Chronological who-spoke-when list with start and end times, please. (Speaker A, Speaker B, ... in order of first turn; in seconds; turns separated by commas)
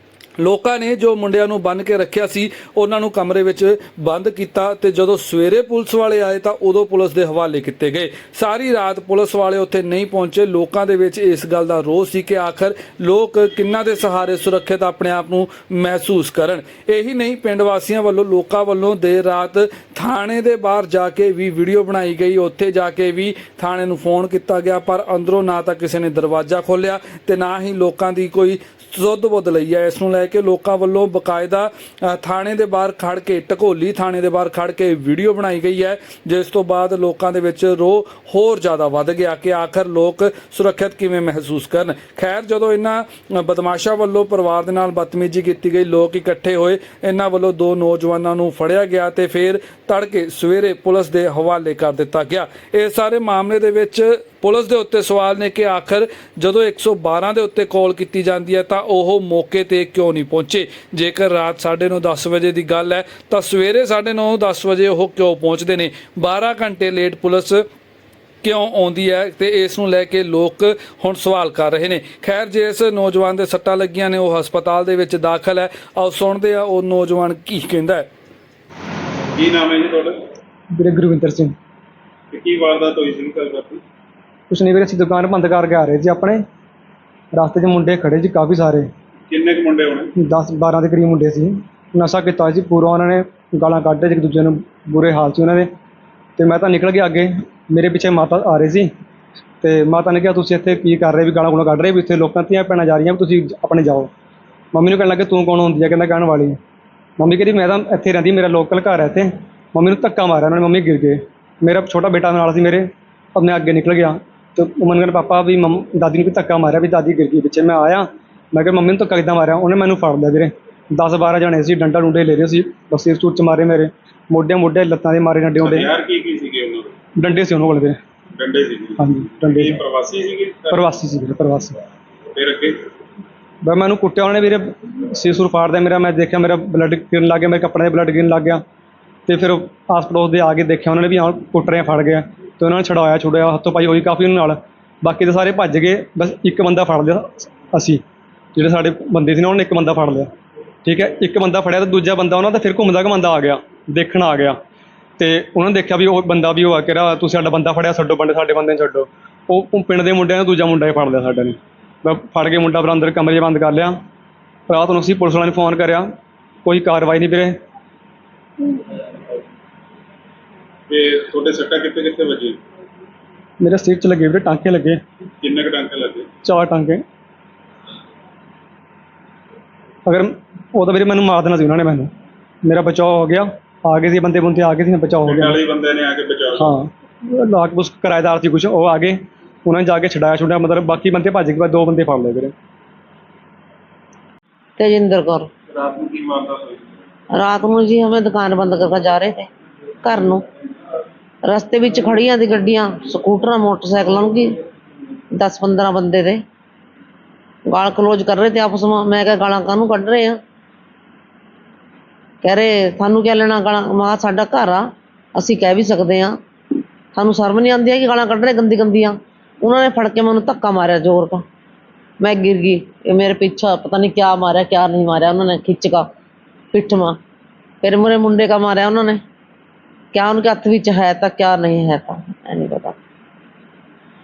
Speaker A: 0.4-67.6, Speaker A: 68.4-78.1, Speaker B: 79.3-80.2, Speaker C: 80.7-81.5, Speaker B: 82.3-83.8, Speaker C: 84.5-86.4, Speaker C: 87.3-88.9, Speaker B: 89.3-90.1, Speaker C: 90.2-95.7, Speaker C: 96.4-98.9, Speaker C: 99.6-104.1, Speaker C: 104.7-106.6, Speaker C: 107.2-125.9, Speaker B: 125.6-126.9, Speaker C: 127.2-128.0, Speaker B: 128.4-130.8, Speaker C: 129.0-129.8, Speaker C: 130.7-131.8, Speaker B: 132.3-132.9, Speaker C: 133.6-138.6, Speaker C: 139.3-148.0, Speaker C: 148.5-150.3, Speaker C: 150.8-154.6, Speaker C: 155.2-163.9, Speaker C: 164.7-166.1, Speaker C: 166.6-167.6, Speaker B: 170.9-172.6, Speaker C: 173.6-175.0, Speaker B: 175.4-176.3, Speaker C: 176.4-177.0, Speaker C: 180.1-182.1, Speaker C: 182.6-185.6, Speaker B: 185.2-186.7, Speaker C: 186.6-192.5, Speaker D: 194.8-195.5, Speaker B: 195.7-196.8, Speaker D: 197.3-199.5, Speaker D: 200.0-200.4, Speaker D: 201.4-204.5, Speaker D: 205.3-206.4, Speaker D: 207.7-210.3, Speaker D: 212.4-216.3, Speaker D: 217.1-221.4, Speaker D: 222.2-226.0, Speaker D: 226.7-227.2, Speaker D: 227.8-229.2, Speaker D: 230.1-232.9